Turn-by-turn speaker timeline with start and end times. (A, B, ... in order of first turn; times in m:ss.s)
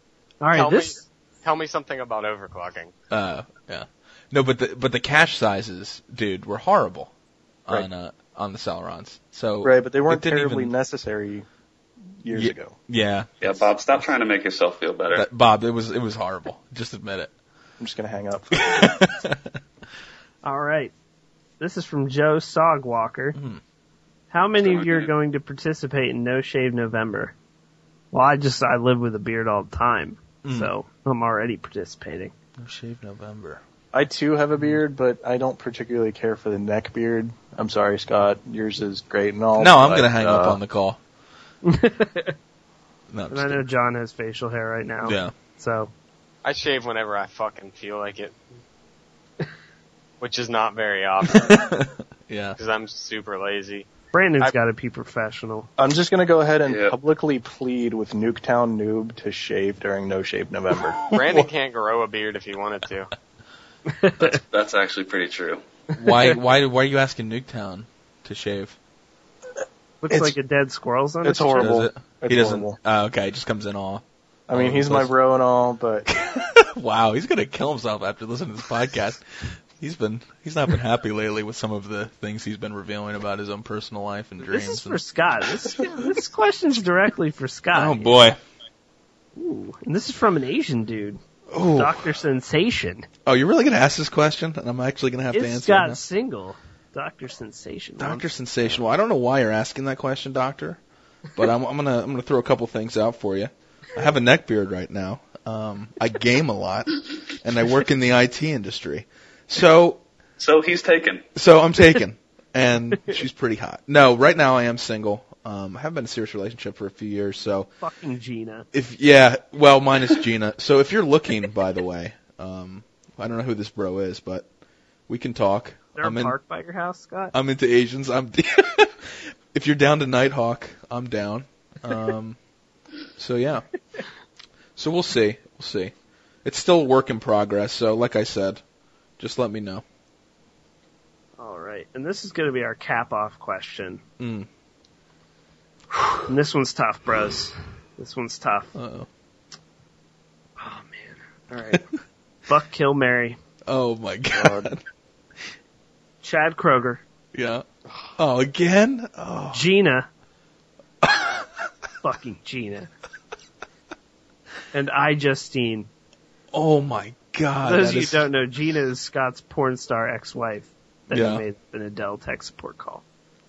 0:00.4-0:01.0 A
0:00.5-0:02.9 B
0:03.1-0:07.1 C
0:07.7-0:10.7 C
0:09.6-0:11.5 D
0:12.2-0:12.8 D
0:12.3-0:13.8 C
0:13.4-0:15.3 E
0:15.1-0:17.3 C
0:17.8-0:19.0 D
0:18.6-0:19.6 C
0:20.4-0:20.9 A
0:21.6-0:23.4 A
0:23.3-0:23.6 C
0:24.3-0:27.3 A
0:24.6-0:25.1 E
0:28.1-0:32.3 A
0:30.4-0:30.7 C
0:32.6-0:33.6 C
0:33.9-0:40.6 D
0:39.6-0:41.0 C
0:41.6-0:42.4 A
0:43.1-0:43.6 C
0:43.3-0:45.9 A
0:45.0-0:45.3 C
0:46.4-0:48.4 B
0:50.2-0:51.7 B
0:51.3-0:52.6 C
0:52.6-0:53.9 B
0:54.1-0:55.7 A
0:55.8-1:01.0 D
0:56.6-0:57.0 E
1:01.1-1:01.5 C
1:01.1-1:03.1 B
1:03.9-1:04.4 A
1:04.2-1:05.6 E
1:06.0-1:08.8 C
1:10.0-1:11.7 A
1:11.2-1:12.8 D
1:11.6-1:15.1 C
1:14.5-1:16.1 D
1:16.1-1:25.0 C
1:24.5-1:28.3 A
1:25.6-1:26.1 C
1:27.7-1:28.4 C
1:29.4-1:31.2 A
1:31.5-1:32.1 C
1:31.7-1:33.1 A
1:33.2-1:36.0 C
1:35.3-1:38.3 A
1:38.0-1:40.8 C
1:41.4-1:50.0 C
1:50.4-1:51.3 E
1:51.4-1:57.7 C
1:57.8-1:58.7 A
1:58.7-2:04.5 C
2:05.1-2:06.4 C
2:06.0-2:07.3 A
2:07.3-2:12.4 C
2:13.2-2:13.6 C
2:14.8-2:15.9 C
2:16.4-2:18.6 C
2:19.2-2:19.8 C
2:21.4-2:24.0 A
2:24.2-2:24.5 C
2:26.3-2:28.8 A
2:28.8-2:29.1 C
2:30.6-2:31.8 A
2:32.5-2:33.4 A
2:33.7-2:34.8 C
2:34.4-2:34.7 D
2:36.2-2:37.0 A
2:37.3-2:37.6 C
2:38.2-2:39.7 C
2:39.5-2:40.1 A
2:41.0-2:41.4 C
2:42.0-2:42.9 A
2:44.7-2:45.9 A
2:46.5-2:48.3 C
2:47.6-2:53.0 A
2:51.1-2:51.4 C